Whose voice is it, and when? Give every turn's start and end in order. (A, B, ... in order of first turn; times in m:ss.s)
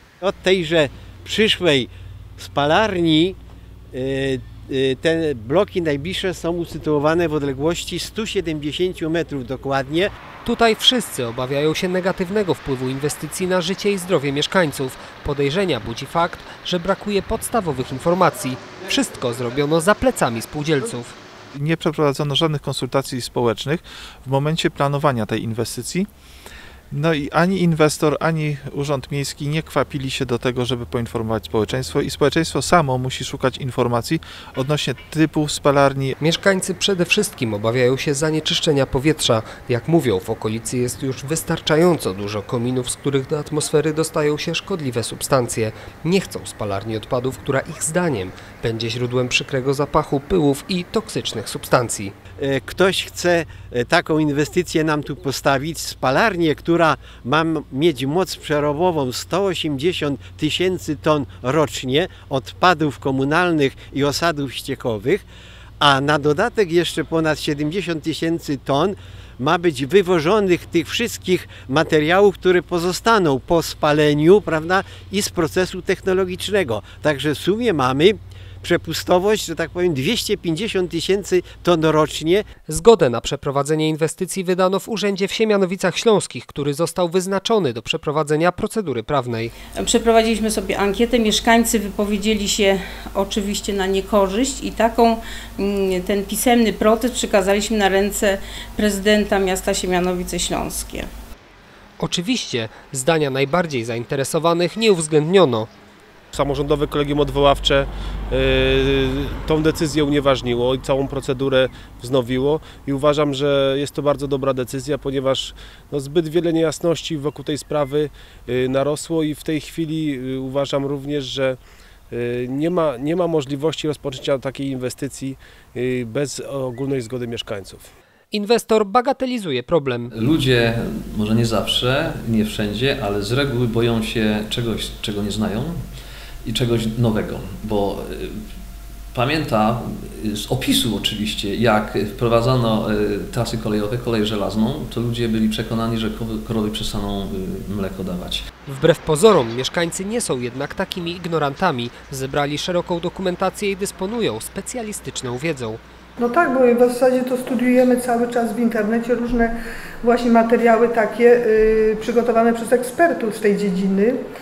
0:00.2-0:03.4 A
0:03.9-0:10.1 A
0:10.4-0:21.2 B
0:21.5-0:26.1 C
0:26.9-0:36.1 C
0:36.2-0:52.1 B
0:52.4-1:05.2 A
1:05.8-1:22.4 A
1:22.7-1:29.5 B
1:29.7-1:41.1 D
1:42.0-1:45.7 B
1:46.3-2:01.6 E
2:02.1-2:07.9 E
2:08.3-2:10.1 B
2:10.1-2:15.8 F
2:16.4-2:18.4 F
2:19.1-2:28.4 F
2:28.7-2:35.8 B
2:36.2-2:44.2 G